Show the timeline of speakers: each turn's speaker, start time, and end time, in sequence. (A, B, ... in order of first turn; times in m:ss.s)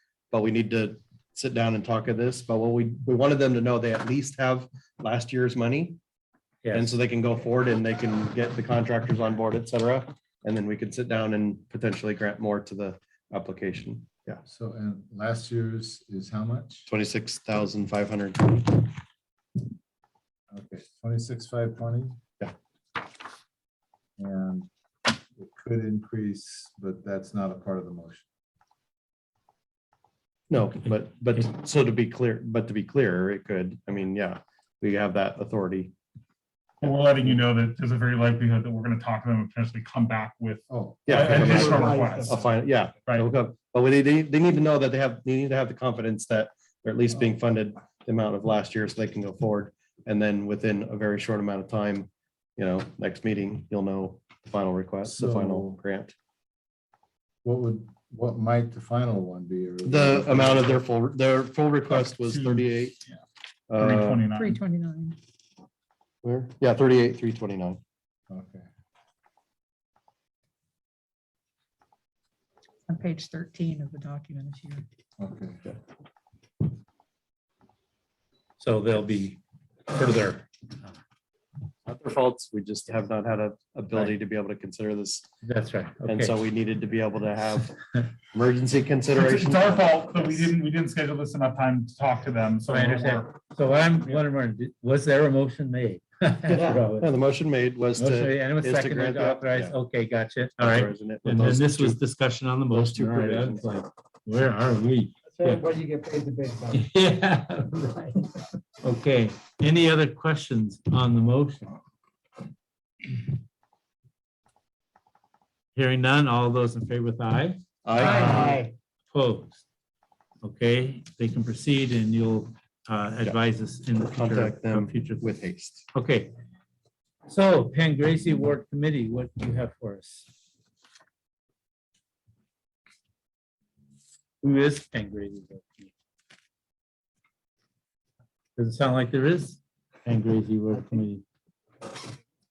0:00.3-0:06.0 A
0:06.6-0:06.9 B
0:06.7-0:14.4 A
0:14.4-0:16.9 C
0:16.9-0:18.9 A
0:20.5-0:22.2 C
0:24.2-0:24.7 C
0:25.4-0:28.2 C
0:30.5-0:35.9 A
0:36.8-0:37.4 A
0:36.8-0:42.4 D
0:40.7-0:41.7 C
0:41.1-0:56.2 A
0:41.2-0:42.8 E
0:55.0-0:55.8 C
0:57.4-1:00.8 C
0:59.8-1:03.0 A
1:01.9-1:03.2 D
1:03.7-1:04.3 A
1:03.8-1:04.6 D
1:04.3-1:05.2 F
1:06.2-1:07.8 A
1:08.3-1:08.6 C
1:12.9-1:14.8 F
1:15.2-1:15.6 C
1:18.6-1:20.5 B
1:21.9-1:25.3 A
1:25.4-1:26.4 B
1:26.1-1:27.8 A
1:28.3-1:30.5 A
1:29.2-1:33.3 D
1:32.6-1:37.1 B
1:36.5-1:39.8 A
1:36.5-1:36.8 E
1:38.0-1:45.6 B
1:40.6-1:42.0 A
1:42.7-1:43.7 A
1:45.2-1:46.9 E
1:46.7-1:48.3 B
1:48.8-1:51.8 B
1:55.8-1:59.6 B
1:57.8-1:58.7 A
1:58.0-1:58.7 E
2:00.4-2:05.3 B
2:04.1-2:05.9 A
2:05.9-2:06.4 B
2:07.3-2:10.3 B
2:14.4-2:15.9 B
2:18.6-2:21.2 B
2:20.7-2:21.1 E
2:21.9-2:22.2 E